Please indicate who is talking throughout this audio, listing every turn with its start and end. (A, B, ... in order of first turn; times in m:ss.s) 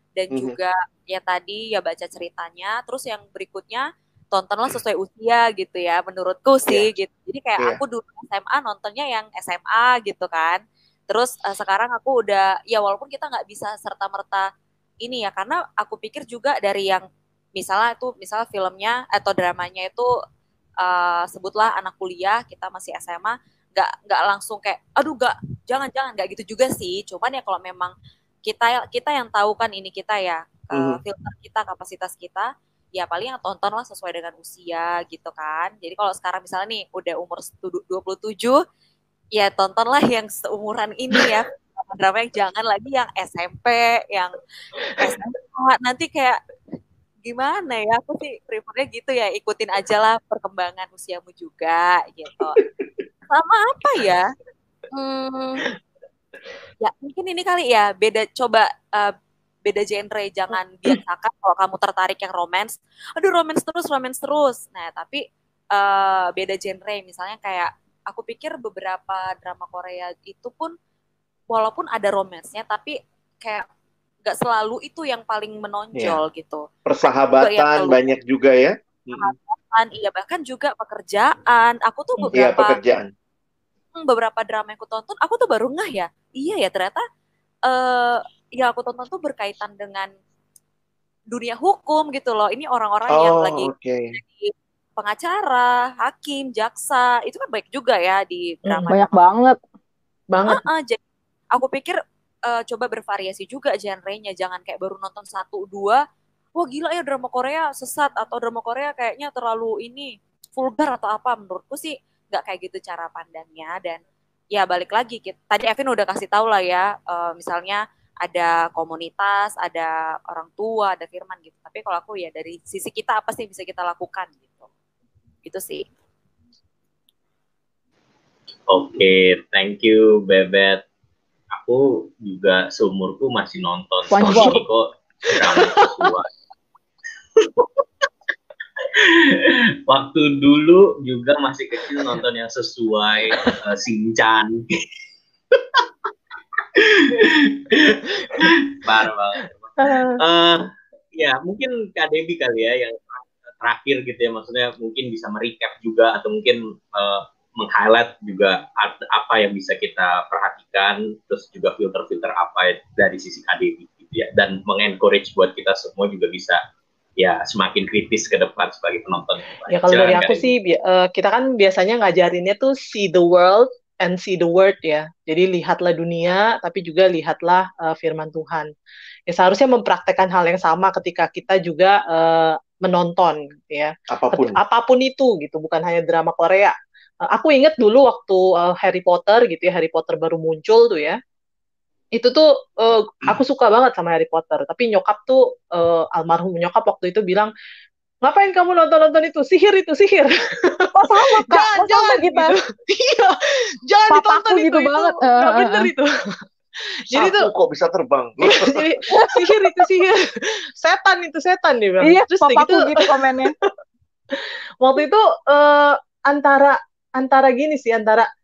0:00.2-0:14.5 A
0:00.3-0:00.6 B
0:15.0-0:17.0 A
0:17.6-0:20.1 A
0:20.8-0:27.9 A
0:28.5-0:38.6 A
0:30.7-0:31.0 B
0:39.4-0:46.4 A
0:47.3-0:52.6 A
0:53.3-0:54.3 A
0:54.9-0:55.6 A
0:56.8-0:59.1 A
0:59.7-1:05.2 A
1:05.7-1:10.7 A
1:11.5-1:13.7 A
1:14.3-1:18.1 A
1:16.0-1:16.2 B
1:16.9-1:19.3 B
1:19.2-1:22.8 A
1:22.3-1:23.1 B
1:24.0-1:27.0 A
1:27.7-1:30.1 A
1:31.3-1:39.2 A
1:33.1-1:34.1 B
1:38.7-1:38.9 C
1:38.9-1:39.6 D
1:40.3-1:40.6 C
1:40.5-1:41.0 A
1:41.5-1:42.0 A
1:42.5-1:46.0 A
1:46.6-1:54.0 A
1:54.5-2:04.7 A
2:05.4-2:05.8 A
2:08.7-2:10.8 E
2:11.5-2:16.3 E
2:14.1-2:14.6 D
2:14.2-2:14.6 C
2:15.3-2:16.1 C
2:17.4-2:17.8 E
2:18.9-2:24.6 E
2:26.8-2:46.6 E
2:29.8-2:30.2 C
2:47.2-2:50.5 E
2:49.7-2:58.7 C
2:59.3-3:06.8 C
3:04.1-3:04.6 B
3:07.3-3:11.2 C
3:12.1-3:17.5 C
3:18.2-3:26.4 C
3:21.0-3:22.6 D
3:24.1-3:25.9 D
3:27.1-3:27.5 C
3:27.2-3:29.0 B
3:28.4-3:33.7 C
3:29.1-3:29.8 D
3:32.0-3:33.5 D
3:34.3-3:38.3 C